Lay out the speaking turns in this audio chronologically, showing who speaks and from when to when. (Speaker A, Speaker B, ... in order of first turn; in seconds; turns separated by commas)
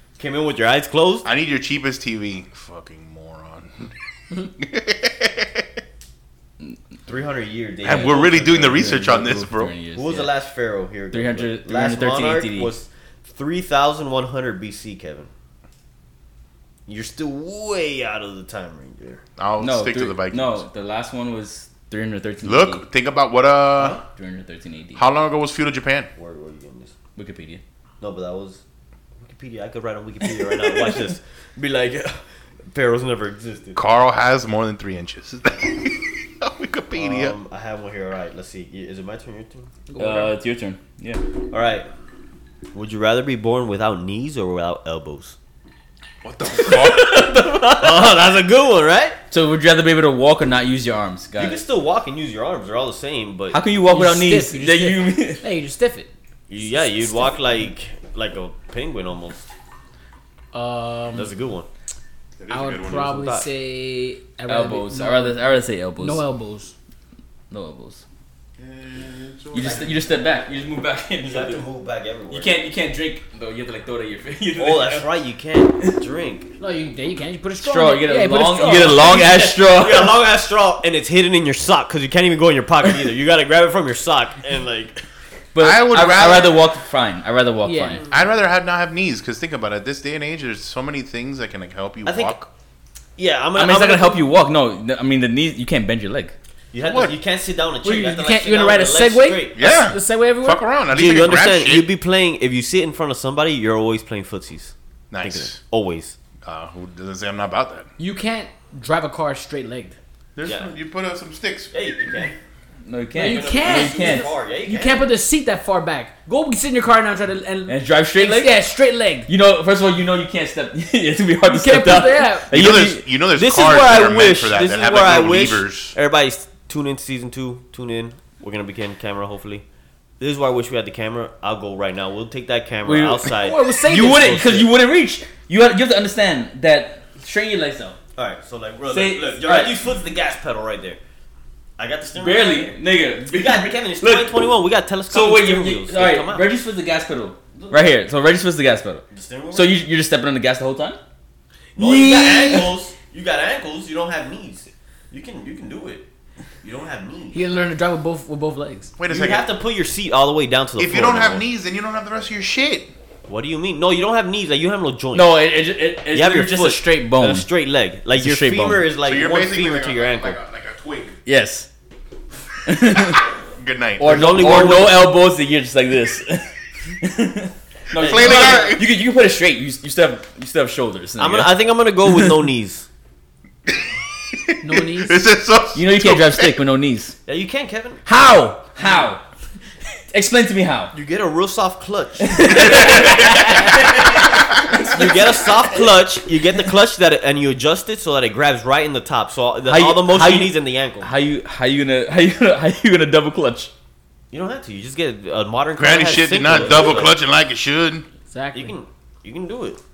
Speaker A: 0.2-1.3, Speaker B: 1.2-3.9, Speaker B: 4.6-5.7, Speaker A: 7.0-9.1, Speaker B: 7.8-9.7, Speaker C: 7.8-10.3, Speaker A: 9.9-15.3, Speaker C: 11.1-12.7, Speaker A: 16.9-19.2, Speaker B: 19.4-20.6, Speaker C: 19.6-22.8, Speaker B: 22.4-24.0, Speaker A: 23.8-24.0, Speaker C: 24.1-25.0, Speaker B: 24.9-26.1, Speaker A: 26.1-26.9, Speaker C: 27.1-27.6, Speaker A: 28.0-28.6, Speaker A: 29.2-33.8, Speaker C: 30.5-31.0, Speaker B: 33.8-37.4, Speaker A: 36.9-39.7, Speaker D: 39.9-40.3, Speaker C: 40.0-41.2, Speaker A: 41.5-41.9, Speaker A: 42.7-45.4, Speaker B: 46.2-47.3, Speaker A: 46.6-49.2, Speaker C: 49.3-51.6, Speaker A: 51.4-53.6, Speaker C: 53.5-55.4, Speaker D: 53.9-56.1, Speaker A: 56.5-59.5, Speaker D: 60.5-61.3, Speaker A: 61.1-61.7, Speaker B: 62.4-63.3, Speaker D: 62.5-66.7, Speaker A: 63.0-63.5, Speaker C: 64.5-66.2, Speaker C: 67.5-68.0, Speaker B: 68.6-70.0, Speaker C: 69.5-71.6, Speaker A: 71.2-72.5, Speaker C: 72.3-75.1, Speaker A: 74.6-76.5, Speaker D: 76.6-79.2, Speaker C: 77.6-80.2, Speaker A: 78.7-85.0, Speaker C: 85.5-88.0, Speaker B: 85.6-86.6, Speaker D: 87.6-88.0, Speaker B: 88.1-92.5, Speaker A: 92.0-92.4, Speaker A: 93.2-94.2, Speaker C: 93.5-96.3, Speaker A: 96.7-99.8, Speaker B: 96.9-97.2, Speaker D: 97.8-100.6, Speaker B: 99.5-101.9, Speaker A: 100.9-106.2, Speaker B: 105.1-105.6, Speaker B: 106.4-107.9, Speaker D: 108.0-110.0, Speaker B: 110.3-111.7, Speaker A: 110.4-110.7, Speaker A: 111.7-112.3, Speaker C: 112.8-114.3, Speaker D: 113.1-119.3, Speaker A: 113.2-115.1, Speaker C: 117.7-118.6, Speaker C: 119.3-123.1, Speaker D: 121.5-122.5, Speaker B: 122.5-125.9, Speaker A: 123.3-129.6, Speaker A: 130.2-134.7, Speaker C: 132.8-133.3, Speaker D: 133.3-134.4, Speaker C: 133.8-138.0, Speaker A: 138.2-141.0, Speaker C: 138.9-139.7, Speaker A: 141.8-146.5, Speaker C: 142.1-144.4, Speaker C: 145.1-151.0, Speaker A: 147.5-147.9, Speaker A: 149.1-149.8, Speaker A: 151.8-156.1, Speaker C: 151.8-152.8, Speaker A: 156.6-157.4, Speaker D: 157.3-158.9, Speaker B: 159.0-159.5, Speaker A: 159.1-161.4, Speaker B: 160.8-162.9, Speaker A: 163.3-165.4, Speaker C: 165.1-167.5, Speaker A: 166.1-170.4, Speaker C: 168.2-168.8, Speaker B: 169.0-171.2, Speaker C: 171.2-171.7, Speaker C: 172.7-173.2, Speaker B: 173.0-174.5, Speaker C: 174.0-181.5, Speaker A: 174.0-175.1, Speaker B: 177.9-178.9, Speaker A: 178.0-178.7, Speaker A: 181.2-182.9, Speaker B: 183.7-186.6, Speaker D: 184.6-185.2, Speaker C: 185.7-187.1, Speaker A: 187.2-188.0, Speaker C: 188.1-189.2, Speaker C: 190.1-190.9, Speaker A: 190.9-194.0, Speaker C: 192.2-195.4, Speaker A: 194.8-201.1, Speaker C: 199.7-203.7, Speaker A: 204.3-207.1, Speaker B: 205.8-208.1, Speaker D: 208.3-208.7, Speaker A: 208.5-209.8